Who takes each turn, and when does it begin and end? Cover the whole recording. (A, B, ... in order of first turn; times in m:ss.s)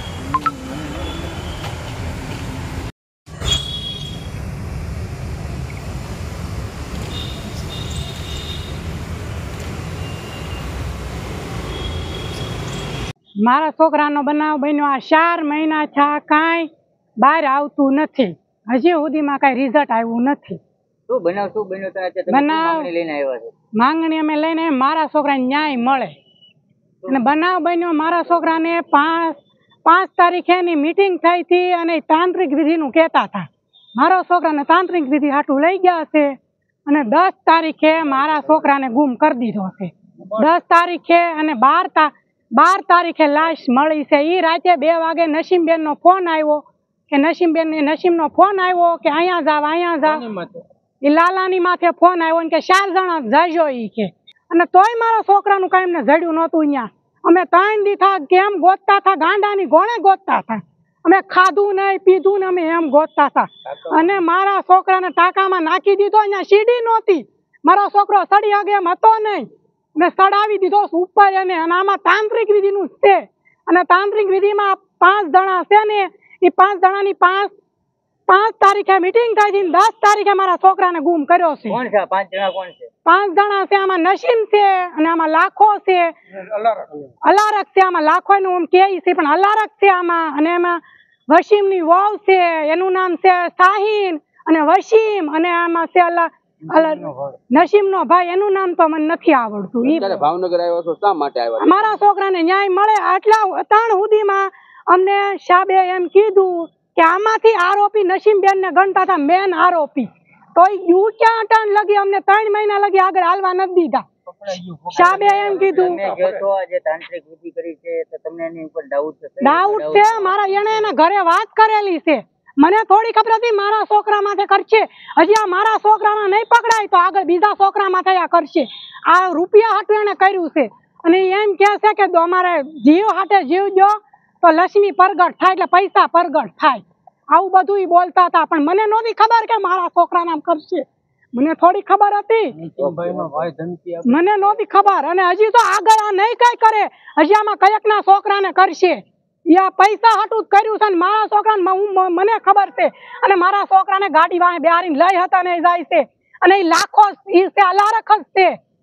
0:13.4-0:20.6 A
0:21.1-0:23.5 B
0:22.3-0:22.9 A
0:23.8-0:26.2 A
0:27.1-0:50.3 A
0:50.2-0:50.6 C
0:51.0-1:17.5 A
1:18.3-1:21.8 A
1:21.7-1:22.9 B
1:23.0-1:26.2 A
1:27.2-1:40.2 A
1:36.8-1:37.4 C
1:39.8-1:41.9 C
1:41.6-1:54.1 A
1:54.4-1:56.4 C
1:54.9-1:56.0 A
1:55.4-2:00.9 B
1:59.4-2:22.6 A
2:22.6-2:24.6 C
2:22.8-2:23.5 B
2:24.1-2:38.6 A